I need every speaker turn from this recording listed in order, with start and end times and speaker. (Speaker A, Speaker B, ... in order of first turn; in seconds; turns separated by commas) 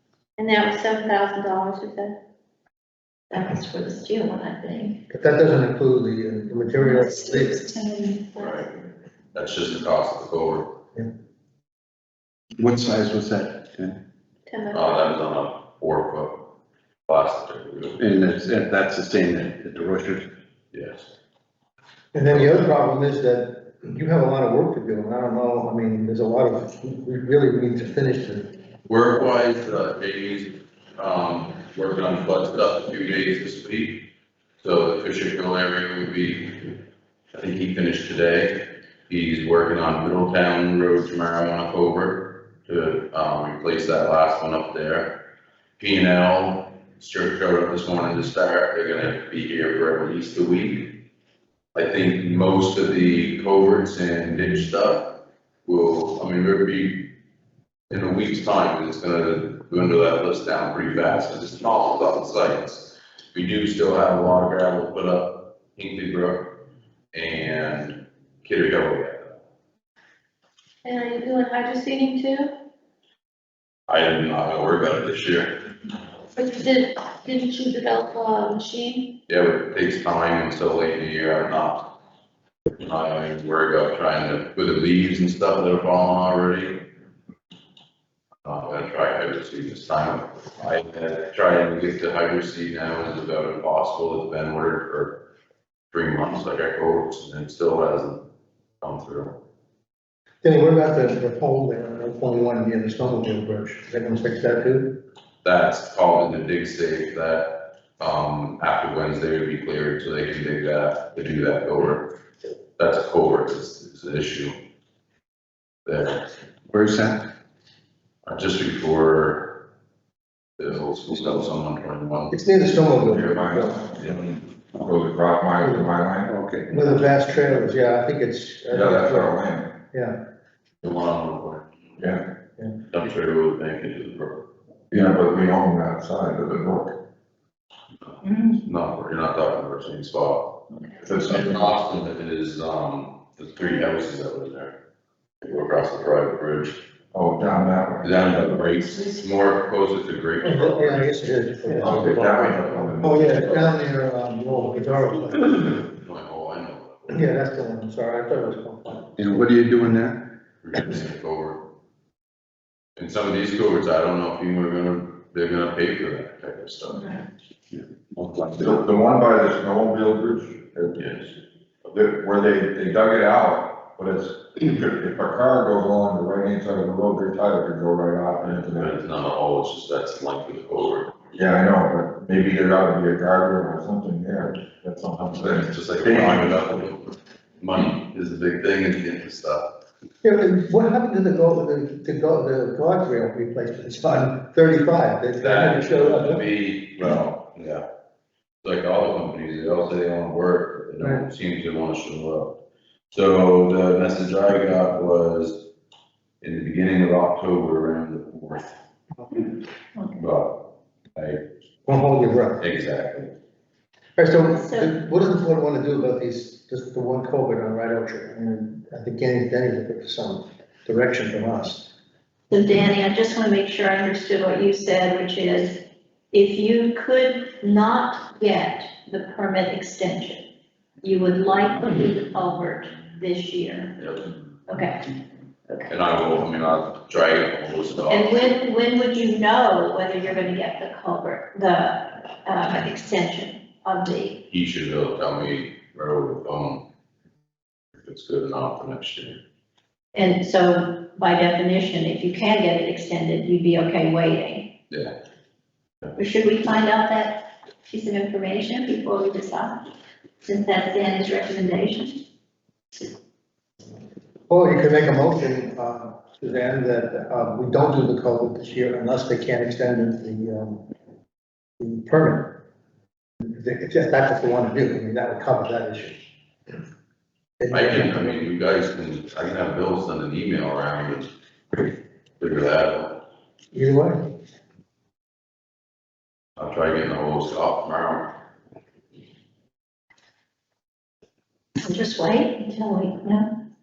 Speaker A: 0.4-2.1, Speaker B: 3.3-5.0, Speaker C: 5.1-7.6, Speaker B: 6.8-8.3, Speaker D: 8.4-8.7, Speaker D: 9.3-10.7, Speaker E: 12.6-14.0, Speaker A: 14.5-15.2, Speaker D: 14.7-16.4, Speaker D: 17.1-18.0, Speaker E: 18.0-20.3, Speaker D: 20.7-21.1, Speaker C: 22.1-28.5, Speaker D: 22.3-22.6, Speaker D: 28.9-34.0, Speaker D: 34.6-36.7, Speaker D: 37.3-45.1, Speaker D: 45.8-51.0, Speaker D: 51.7-55.1, Speaker D: 55.6-57.1, Speaker D: 57.9-66.5, Speaker D: 67.1-69.4, Speaker A: 70.8-72.5, Speaker D: 73.9-75.5, Speaker A: 76.3-79.1, Speaker D: 79.3-81.8, Speaker D: 82.8-86.8, Speaker D: 88.4-95.1, Speaker D: 95.9-98.2, Speaker D: 98.8-99.3, Speaker C: 100.4-104.9, Speaker D: 105.4-112.0, Speaker D: 112.8-114.5, Speaker D: 115.8-116.2, Speaker E: 116.7-117.2, Speaker D: 118.2-119.5, Speaker D: 120.6-122.3, Speaker C: 122.3-123.8, Speaker F: 123.0-126.3, Speaker C: 125.6-125.9, Speaker E: 126.3-127.0, Speaker C: 126.7-129.4, Speaker F: 128.7-129.7, Speaker D: 130.8-131.7, Speaker D: 132.9-134.4, Speaker F: 134.9-136.9, Speaker D: 138.1-140.6, Speaker B: 138.2-138.6, Speaker F: 141.0-141.6, Speaker D: 141.2-144.7, Speaker D: 145.4-146.8, Speaker F: 147.1-148.1, Speaker D: 148.0-151.1, Speaker C: 150.4-155.8, Speaker F: 151.8-153.8, Speaker D: 151.9-152.4, Speaker D: 155.9-157.3, Speaker C: 157.1-159.1, Speaker E: 159.2-160.2, Speaker D: 160.6-161.6, Speaker D: 163.0-167.2, Speaker E: 167.7-168.8, Speaker F: 168.6-171.1, Speaker D: 171.0-171.3, Speaker F: 171.8-178.9, Speaker D: 178.4-181.2, Speaker F: 181.3-186.6, Speaker D: 185.4-189.7, Speaker C: 190.2-196.4, Speaker D: 195.4-197.8, Speaker D: 198.6-202.6, Speaker D: 203.1-205.6, Speaker D: 206.4-208.7, Speaker B: 209.9-210.3, Speaker D: 210.2-210.6, Speaker D: 211.1-211.4, Speaker C: 211.9-212.6, Speaker D: 212.6-213.3, Speaker C: 214.2-221.8, Speaker B: 214.5-215.0, Speaker B: 222.5-225.8, Speaker B: 226.3-230.4, Speaker B: 231.0-233.9, Speaker D: 234.0-234.2, Speaker B: 234.7-235.0, Speaker B: 235.7-235.9, Speaker D: 235.9-238.5, Speaker B: 238.1-244.4, Speaker D: 244.5-246.8, Speaker D: 248.0-249.4, Speaker B: 250.1-254.7, Speaker B: 256.1-259.8, Speaker B: 260.4-262.2, Speaker C: 264.5-270.8, Speaker C: 271.8-272.5, Speaker C: 273.4-276.2, Speaker C: 277.6-278.4, Speaker D: 277.7-281.3, Speaker D: 282.4-283.2, Speaker C: 283.7-284.2, Speaker D: 286.6-288.3, Speaker B: 291.8-293.5